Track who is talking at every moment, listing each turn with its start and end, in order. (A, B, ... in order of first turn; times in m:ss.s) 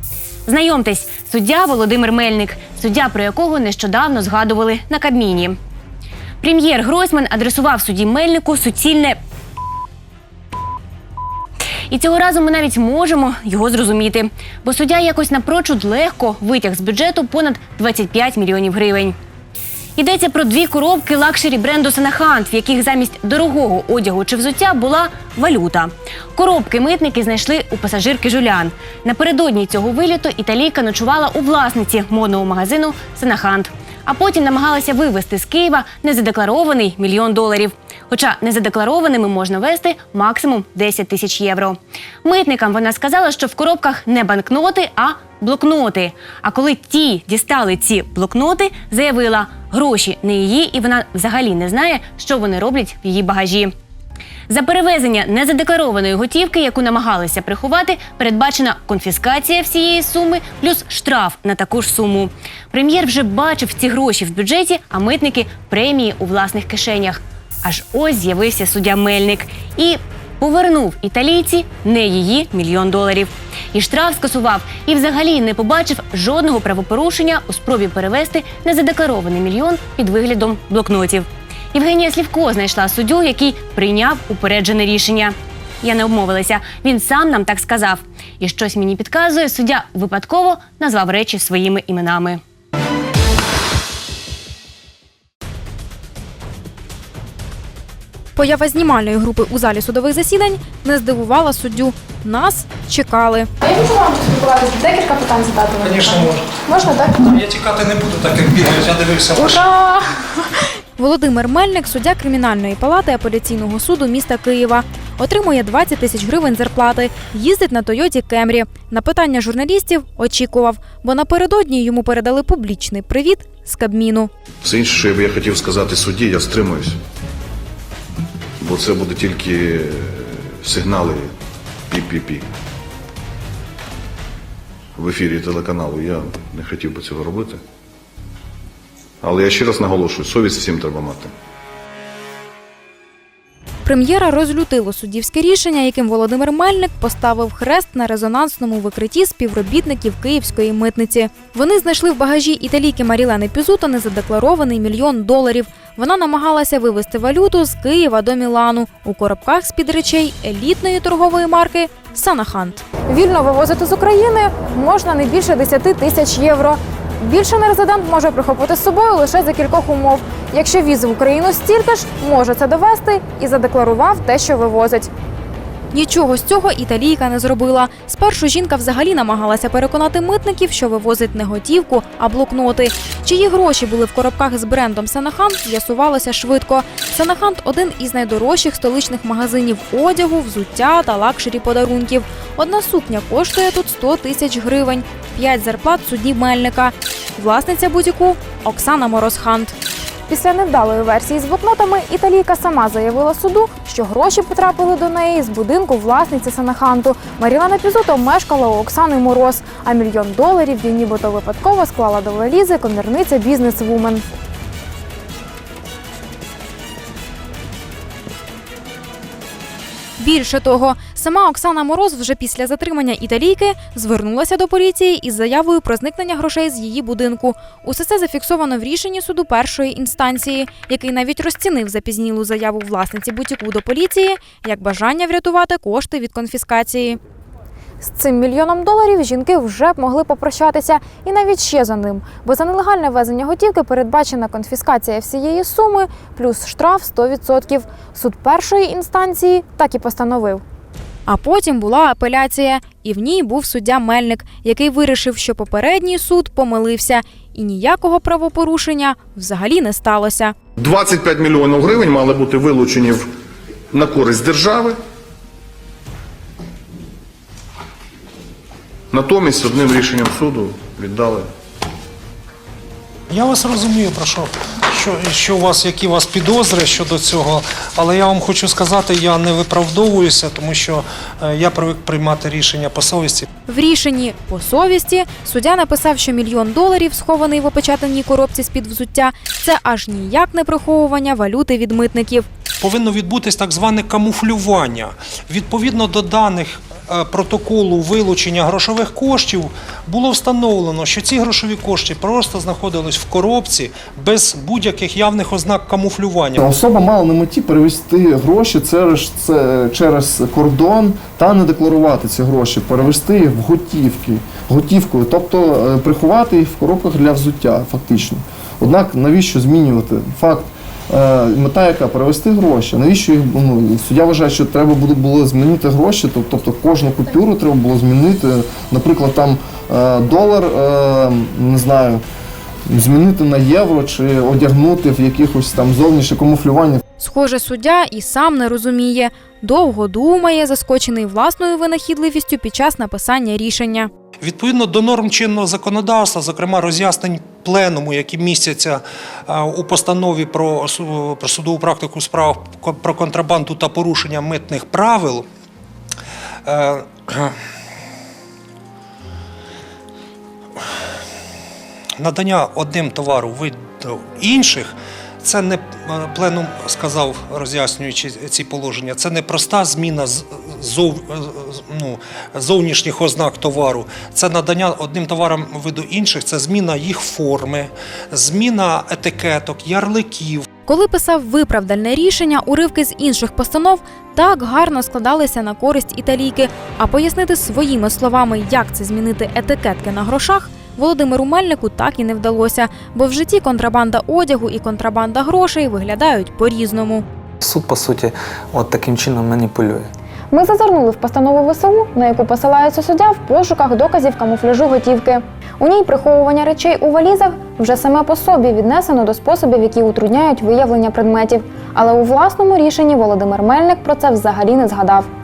0:00.4-0:05.6 A
0:06.4-0:09.2 A
0:11.9-0:19.2 A
0:20.0-0:53.7 A
0:54.5-1:32.4 A
1:38.4-1:43.5 B
1:43.6-1:47.3 C
1:45.8-1:46.4 D
1:47.2-1:49.6 D
1:49.4-1:50.3 C
1:51.0-2:04.3 B
2:04.6-2:07.0 E
2:08.6-2:11.3 E
2:11.9-2:12.5 E
2:14.9-2:17.6 E
2:19.2-2:21.3 E
2:23.8-2:42.8 B
2:43.1-2:55.1 C
2:55.9-3:19.7 B
3:20.3-3:34.2 C
3:40.2-3:57.2 B
3:58.0-4:10.6 C
4:11.3-4:20.5 B
4:20.8-4:23.3 E
4:23.9-4:25.0 E
4:29.1-4:31.5 E
4:33.3-4:43.4 D
4:43.7-4:52.4 B
4:52.8-5:06.6 D
5:06.6-5:32.2 F
5:32.9-5:37.0 F
5:37.2-5:44.1 B
5:44.4-5:55.4 D
5:56.6-5:57.5 D
6:02.2-6:20.6 D
6:20.8-6:37.2 B
6:37.6-6:40.1 G
6:40.5-6:55.3 C